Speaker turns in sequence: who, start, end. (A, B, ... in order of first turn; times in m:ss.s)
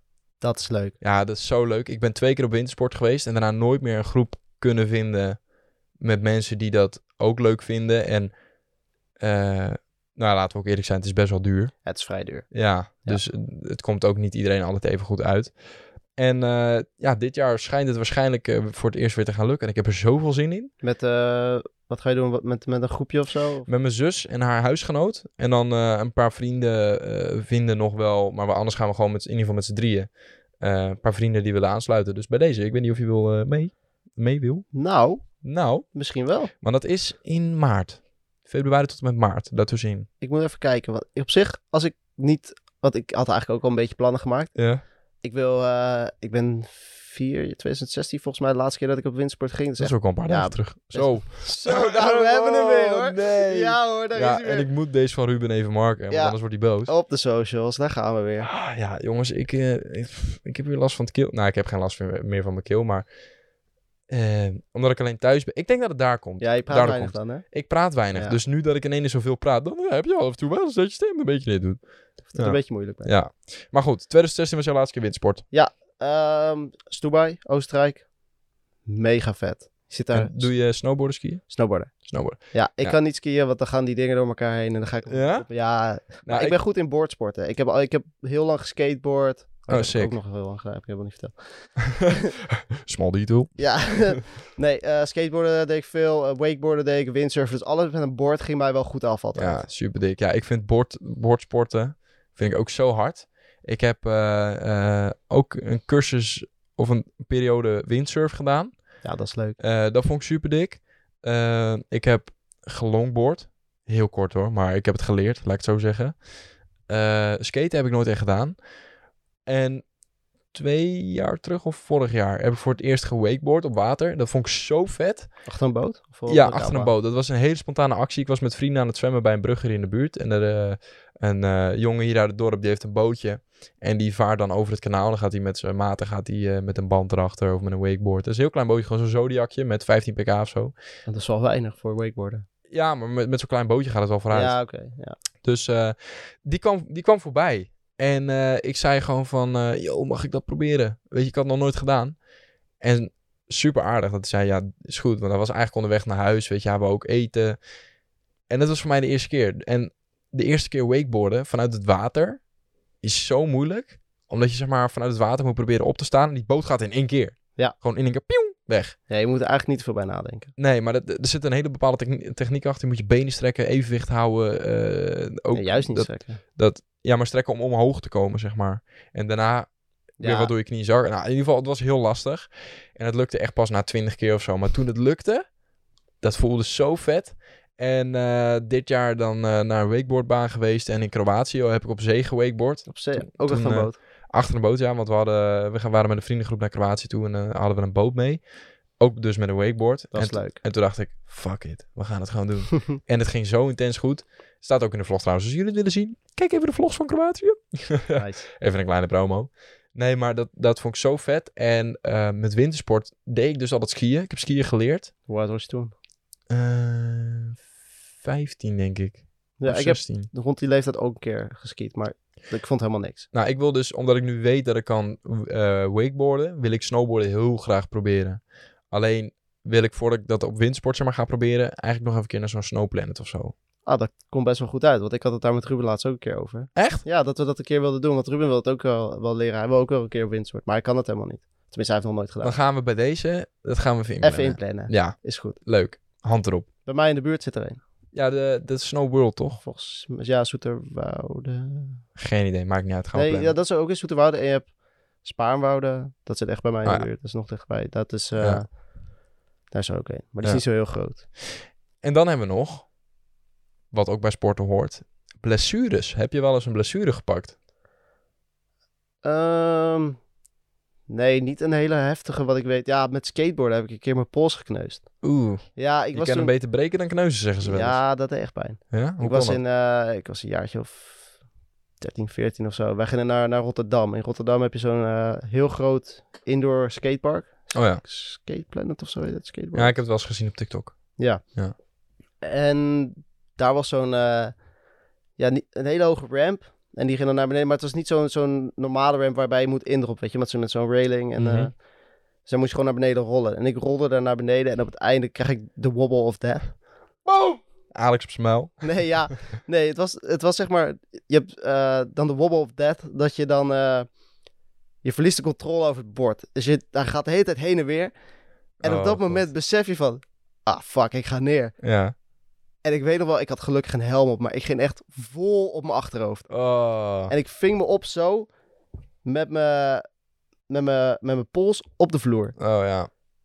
0:00.4-0:01.0 A
0:01.0-0:05.4 B
0:06.0-0:08.3 B
0:09.2-0:11.7 B
0:11.8-0:12.5 A
0:12.5-0:15.5 B
0:16.2-0:20.7 B
0:20.8-0:23.7 A
0:23.7-0:30.1 B
0:30.6-0:34.7 B
0:34.7-0:35.2 A
0:35.4-0:35.9 B
0:35.9-0:36.5 A
0:36.5-0:40.1 B
0:40.2-0:44.5 A
0:44.5-0:44.8 B
0:45.2-0:54.7 A
0:49.8-0:56.9 B
0:56.1-0:58.5 A
0:58.4-1:03.1 B
1:04.1-1:15.4 B
1:06.4-1:07.4 A
1:08.1-1:08.4 A
1:12.3-1:13.1 A
1:15.5-1:18.1 A
1:18.9-1:20.5 A
1:20.1-1:23.0 B
1:21.5-1:32.3 A
1:25.1-1:25.5 B
1:26.0-1:26.5 B
1:29.7-1:30.1 B
1:32.8-1:34.2 B
1:33.6-1:39.6 A
1:39.3-1:48.9 B
1:49.0-1:49.6 A
1:49.6-1:56.2 B
1:56.9-1:58.6 B
1:59.4-1:59.8 B
2:00.5-2:05.3 B
2:05.4-2:06.9 A
2:06.3-2:20.7 B
2:21.1-2:22.4 A
2:22.7-2:24.6 B
2:24.3-2:25.2 A
2:25.4-2:32.2 B
2:32.8-2:37.6 B
2:38.5-2:42.4 B
2:43.0-2:49.0 B
2:49.1-2:50.5 A
2:50.6-2:59.7 B
2:55.5-2:56.4 A
3:00.2-3:00.5 A
3:00.2-3:05.4 B
3:06.2-3:18.4 B
3:12.9-3:14.0 A
3:19.0-3:35.1 B
3:20.1-3:20.6 A
3:28.2-3:28.4 A
3:35.3-3:35.9 A
3:36.5-3:37.6 B
3:38.2-3:40.3 B
3:39.6-3:43.3 A
3:43.3-3:53.5 B
3:53.8-4:02.6 A
3:56.7-3:57.0 B
4:02.4-4:06.7 B
4:04.2-4:05.6 A
4:06.8-4:07.8 A
4:08.1-4:09.6 B
4:09.6-4:12.0 A
4:12.2-4:13.5 B
4:13.1-4:18.8 A
4:18.4-4:18.6 B
4:19.7-4:21.2 A
4:22.0-4:22.9 B
4:23.9-4:27.5 B
4:29.2-4:30.2 A
4:31.1-4:35.1 A
4:35.2-4:38.0 B
4:35.7-4:36.5 A
4:37.6-4:41.3 A
4:38.9-4:39.6 B
4:42.0-4:50.0 A
4:47.7-4:48.0 B
4:49.7-4:51.7 B
4:51.2-4:51.4 A
4:52.4-4:54.6 A
4:55.4-5:01.8 A
5:01.4-5:01.7 B
5:02.4-5:06.7 A
5:07.2-5:09.0 B
5:08.8-5:14.1 A
5:15.0-5:18.1 A
5:18.8-5:19.5 B
5:18.8-5:21.7 A
5:21.8-5:22.1 B
5:22.8-5:26.5 A
5:26.5-5:27.3 B
5:27.3-5:28.5 A
5:29.2-5:30.0 A
5:30.7-5:32.6 A
5:32.6-5:33.1 B